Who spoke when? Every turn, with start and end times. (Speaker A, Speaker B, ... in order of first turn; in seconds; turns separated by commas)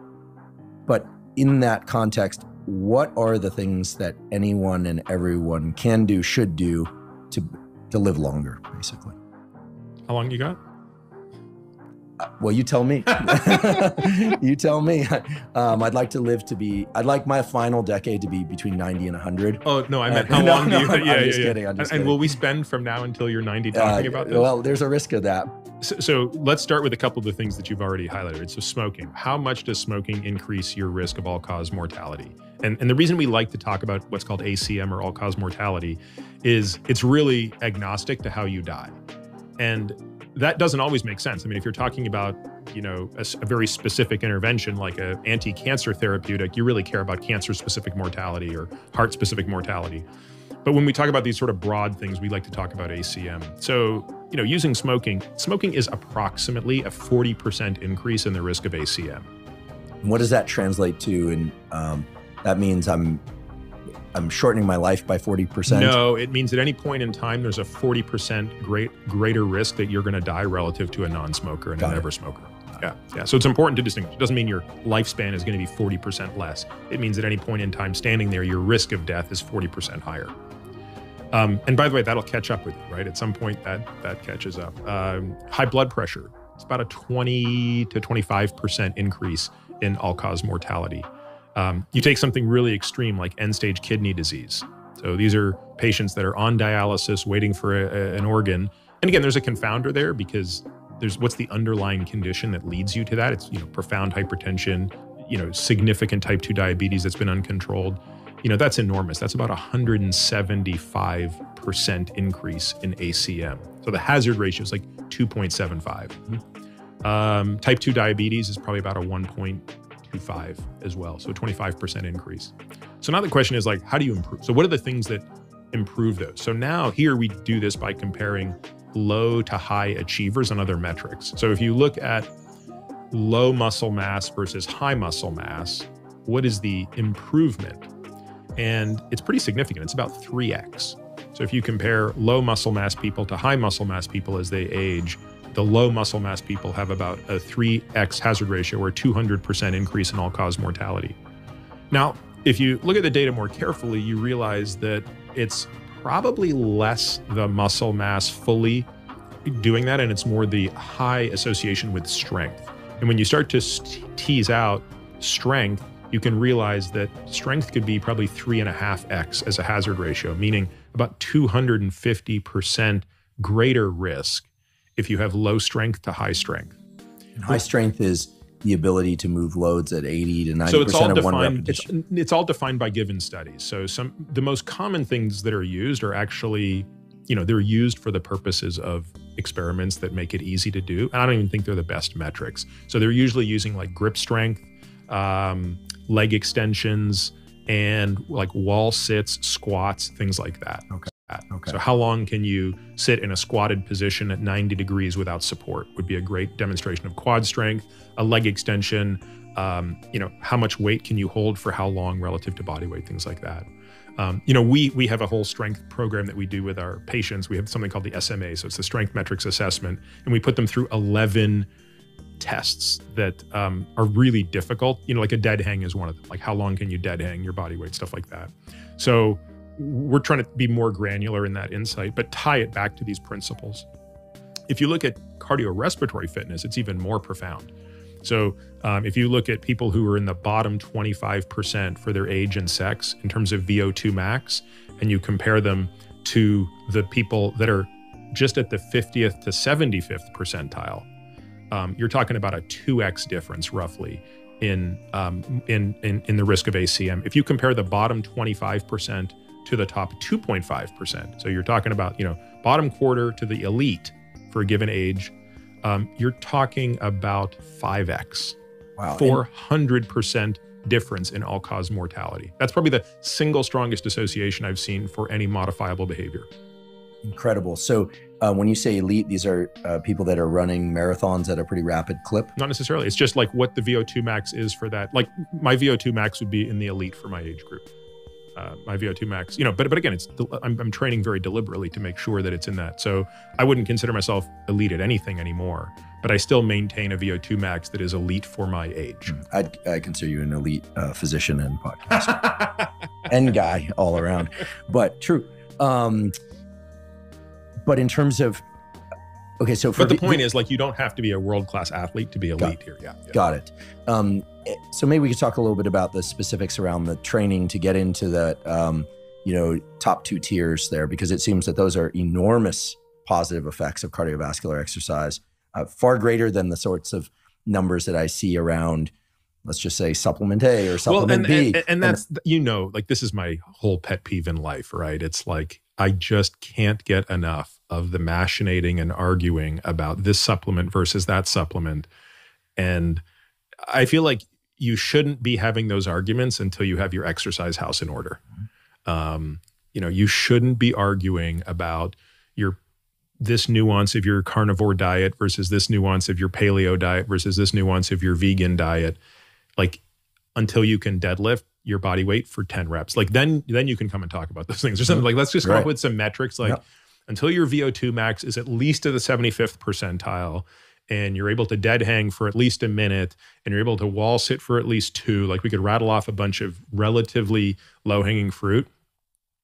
Speaker A: 0.9-9.2, Speaker B: 10.1-10.6, Speaker A: 12.2-22.2, Speaker B: 19.6-24.5, Speaker A: 23.7-25.5, Speaker B: 25.8-39.0, Speaker B: 39.6-50.0, Speaker B: 50.6-59.3, Speaker A: 60.0-63.2, Speaker A: 64.1-66.0, Speaker B: 65.7-80.3, Speaker A: 71.8-72.1, Speaker B: 81.3-116.2, Speaker B: 117.0-132.3, Speaker B: 133.1-137.9, Speaker B: 138.6-151.2, Speaker B: 151.9-158.9, Speaker B: 159.4-176.8, Speaker A: 177.4-181.8, Speaker B: 180.6-213.7, Speaker A: 200.9-201.8, Speaker B: 214.2-221.7, Speaker B: 222.4-233.9, Speaker B: 234.7-237.7, Speaker B: 238.2-251.1, Speaker B: 251.7-268.6, Speaker A: 269.0-269.4, Speaker B: 269.1-276.5, Speaker A: 277.2-282.5, Speaker B: 282.6-287.9, Speaker B: 288.6-299.3, Speaker A: 299.3-302.7, Speaker A: 303.2-306.3, Speaker A: 307.8-308.6, Speaker A: 309.6-310.4, Speaker B: 309.9-313.4, Speaker A: 313.3-329.1, Speaker A: 329.6-332.2, Speaker B: 331.1-342.1, Speaker B: 342.8-343.2, Speaker B: 343.9-348.4, Speaker B: 349.1-352.8, Speaker B: 353.4-359.2, Speaker B: 360.6-378.9, Speaker A: 365.1-365.9